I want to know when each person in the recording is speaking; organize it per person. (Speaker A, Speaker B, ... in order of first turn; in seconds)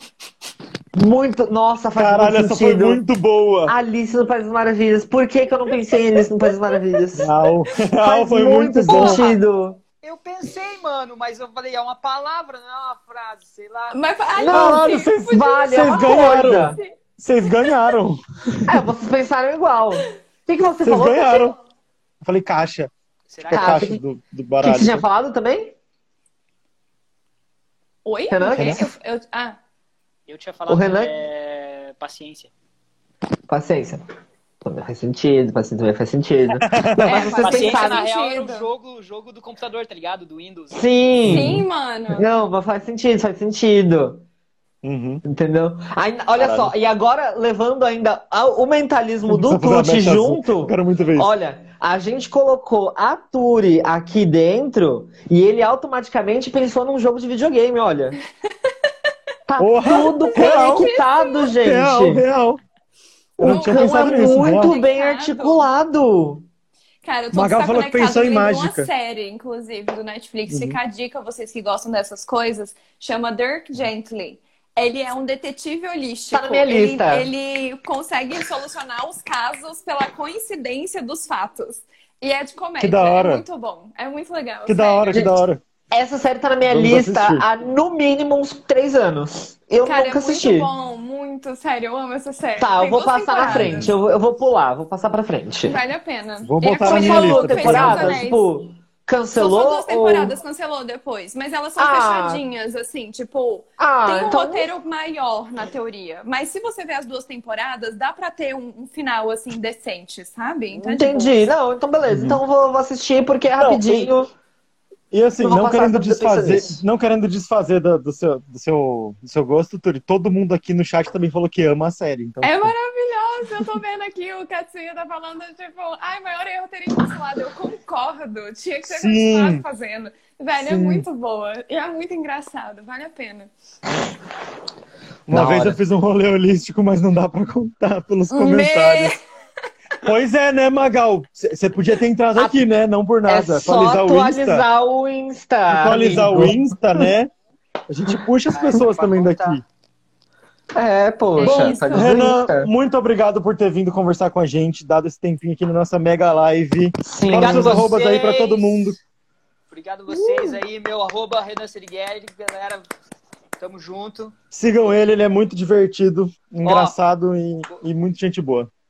Speaker A: 0.9-3.0, 3.7-7.3, 8.0-9.8, 14.4-16.8, 18.7-21.5, 23.5-24.0, 24.6-25.8, 28.3-28.9, 30.7-31.1, 33.5-34.0, 34.6-38.0, 40.7-44.2, 45.2-58.2, 59.5-62.2, 63.4-66.5, 76.3-77.3, 85.9-90.7, 92.6-95.8, 96.7-100.4, 101.8-102.4, 103.8-104.7, 110.7-114.3, 115.4-116.8, 135.3-135.8, 143.3-147.1, 150.8-152.7, 157.0-157.9, 160.1-160.6
Speaker B: 2.0-3.8, 7.2-9.3, 14.5-18.9, 20.8-21.6, 22.2-22.9, 23.5-25.1, 28.5-28.8, 36.6-37.3, 41.3-41.6, 44.8-45.2, 46.4-46.7, 49.3-51.3, 59.6-61.0, 61.6-62.6, 63.4-64.8, 67.3-68.9, 70.5-70.8, 82.8-83.5, 84.7-85.6, 86.7-87.5, 93.5-93.9, 96.4-98.2, 112.1-112.4, 113.6-114.1, 115.1-122.8, 128.9-129.7, 130.6-131.1, 135.3-139.2, 140.0-144.7, 145.7-147.3, 147.9-149.6, 151.4-159.0, 164.5-168.7
Speaker C: 8.9-9.3, 13.9-16.9, 28.1-29.6, 37.0-38.7, 41.2-42.3, 59.9-61.5, 63.4-65.7, 67.0-85.3, 89.8-93.9, 95.7-98.5, 99.4-111.5, 122.4-133.5, 138.3-139.2, 151.4-152.3
Speaker D: 10.0-14.0, 23.3-23.9, 30.3-32.5, 37.4-40.9, 148.5-149.6, 157.3-159.0, 159.7-162.8, 163.6-164.4, 166.6-167.0